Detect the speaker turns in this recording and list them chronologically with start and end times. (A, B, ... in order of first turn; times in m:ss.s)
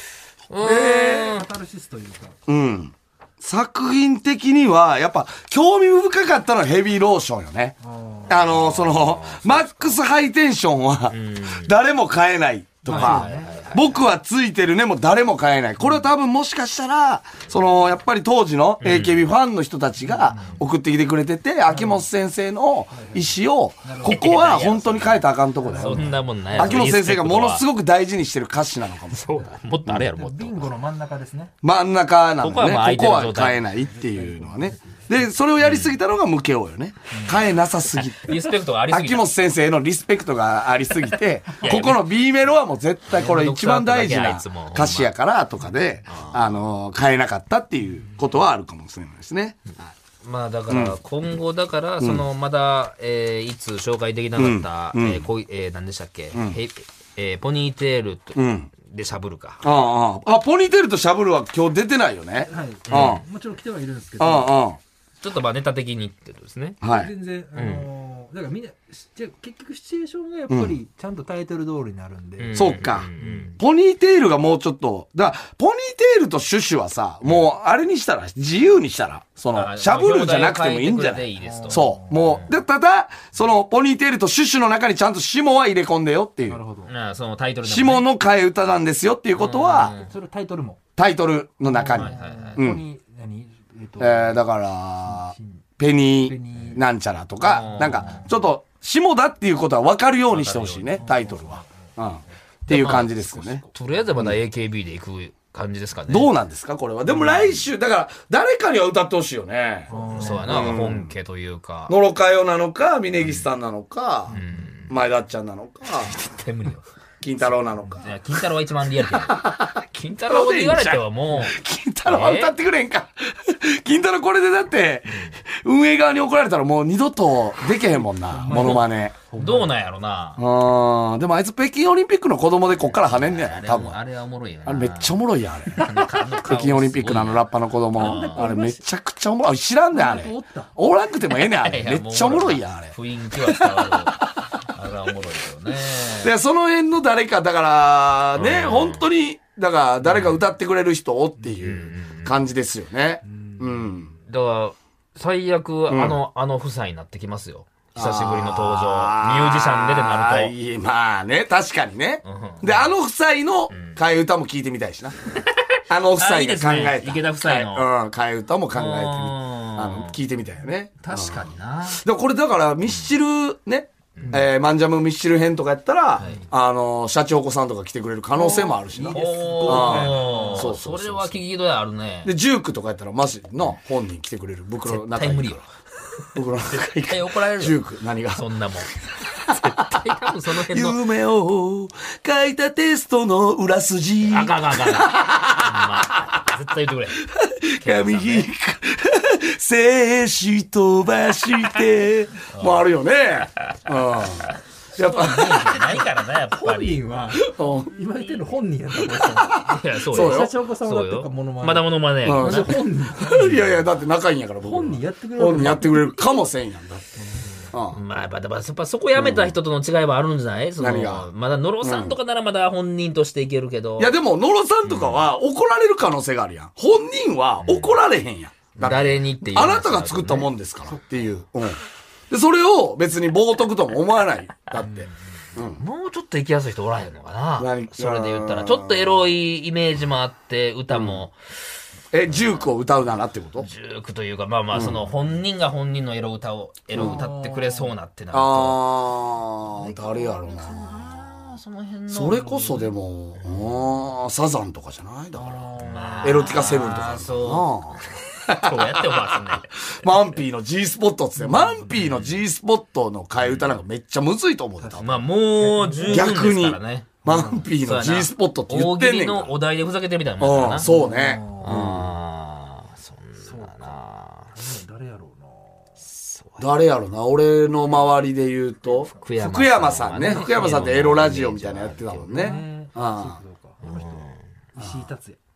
0:00.5-0:01.4 A
0:00.6-0:01.4 B
0:00.9-0:02.4 C
0:02.5-0:07.8 B
0:07.8-0:08.4 C
0:08.3-0:30.1 B
0:08.3-0:10.0 A
0:11.1-0:11.8 A
0:12.8-0:13.6 C
0:12.9-0:14.0 A
0:18.8-0:19.2 A
0:20.0-0:20.6 C
0:21.7-0:22.1 C
0:22.9-0:24.4 C
0:24.0-0:27.6 A
0:25.6-0:26.9 C
0:29.1-0:30.7 A
0:30.1-0:31.5 C
0:31.6-0:49.9 B
0:32.4-0:33.6 A
0:33.7-0:35.2 C
0:35.6-0:36.0 A
0:37.1-0:37.4 C
0:38.1-0:39.3 A
0:41.6-0:42.0 A
0:43.1-0:45.1 A
0:46.1-0:46.5 A
0:50.2-0:59.6 A
0:50.7-0:51.0 B
0:52.0-0:52.2 B
0:54.4-0:55.3 B
0:56.3-0:56.6 B
0:58.4-0:58.7 B
0:59.6-1:03.2 B
1:02.4-1:04.6 C
1:02.9-1:03.2 A
1:04.2-1:04.8 B
1:05.2-1:06.8 A
1:06.8-1:07.1 B
1:06.9-1:13.6 C
1:07.6-1:07.9 A
1:10.5-1:10.8 B
1:12.4-1:13.6 A
1:12.6-1:26.6 B
1:19.5-1:22.6 A
1:21.4-1:22.2 C
1:26.4-1:26.9 C
1:26.8-1:28.1 A
1:27.6-1:30.0 B
1:29.4-1:30.1 A
1:30.0-1:30.8 C
1:31.0-1:32.8 B
1:31.7-1:34.4 C
1:31.8-1:32.7 A
1:34.0-1:43.6 B
1:35.0-1:36.8 C
1:37.4-1:38.4 A
1:37.8-1:38.3 C
1:40.3-1:41.2 A
1:41.0-1:41.7 C
1:42.7-1:43.2 A
1:43.2-1:43.9 C
1:43.8-1:46.3 A
1:46.1-1:51.1 B
1:47.1-1:47.7 A
1:49.9-1:50.8 C
1:49.9-1:52.0 A
1:51.9-1:56.2 B
1:54.3-1:55.0 A
1:56.0-1:56.9 A
1:57.2-1:58.2 B
1:57.4-1:59.4 A
1:59.0-2:09.2 B
1:59.9-2:02.5 A
2:05.1-2:05.4 A
2:08.0-2:09.7 C
2:08.5-2:10.4 A
2:10.4-2:14.0 B
2:12.7-2:15.2 A
2:14.7-2:24.0 B
2:15.7-2:18.5 A
2:18.0-2:18.8 C
2:19.9-2:20.8 C
2:21.4-2:26.4 A
2:26.2-2:34.1 B
2:28.4-2:29.1 A
2:30.0-2:30.4 A
2:31.6-2:32.4 A
2:33.2-2:33.9 C
2:34.3-2:40.5 A
2:35.9-2:36.2 B
2:38.0-2:45.2 B
2:42.2-2:42.9 A
2:43.7-2:44.0 A
2:45.4-2:47.9 A
2:45.9-3:01.4 B
2:48.7-2:50.2 A
2:51.0-2:52.0 A
2:54.2-2:54.5 A
2:56.2-2:56.5 A
2:58.4-3:00.7 C
2:59.1-3:02.3 A
3:02.2-3:05.6 B
3:04.8-3:05.7 A
3:06.2-3:11.0 A
3:06.4-3:08.4 B
3:09.2-3:09.7 B
3:10.6-3:16.3 B
3:14.2-3:17.2 A
3:17.2-3:25.8 B
3:17.8-3:18.5 A
3:22.5-3:22.9 A
3:24.9-3:27.1 A
3:25.8-3:33.6 C
3:27.4-3:27.9 B
3:29.3-3:29.6 B
3:29.6-3:32.8 A
3:30.1-3:30.6 B
3:32.2-3:38.0 B
3:34.6-3:36.3 C
3:37.9-3:44.1 A
3:39.2-3:39.6 B
3:40.8-3:41.3 B
3:41.8-3:42.2 B
3:44.0-3:51.8 B
3:44.8-3:45.3 A
3:47.6-3:48.0 A
3:48.8-3:50.5 A
3:50.8-3:51.3 C
3:52.3-3:55.8 B
3:55.6-4:01.4 A
3:57.6-3:59.2 B
4:00.9-4:01.2 B
4:02.1-4:03.7 B
4:02.3-4:02.7 A
4:03.6-4:08.9 A
4:04.7-4:05.0 B
4:06.9-4:07.2 B
4:06.9-4:07.9 C
4:08.3-4:10.9 B
4:09.7-4:12.9 A
4:12.1-4:25.2 B
4:15.4-4:16.6 C
4:15.8-4:20.3 A
4:21.4-4:22.0 C
4:21.9-4:22.4 A
4:23.4-4:23.8 A
4:24.8-4:26.3 C
4:25.0-4:30.9 A
4:26.0-4:29.5 B
4:27.2-4:27.7 C
4:30.4-4:32.1 B
4:30.8-4:31.9 C
4:31.6-4:34.5 A
4:33.4-4:34.0 C
4:34.5-4:36.0 C
4:36.1-4:36.7 A
4:36.6-4:43.4 B
4:38.9-4:39.2 C
4:39.2-4:42.7 A
4:40.2-4:40.8 C
4:42.3-4:45.4 C
4:43.8-4:44.4 A
4:44.8-4:45.0 B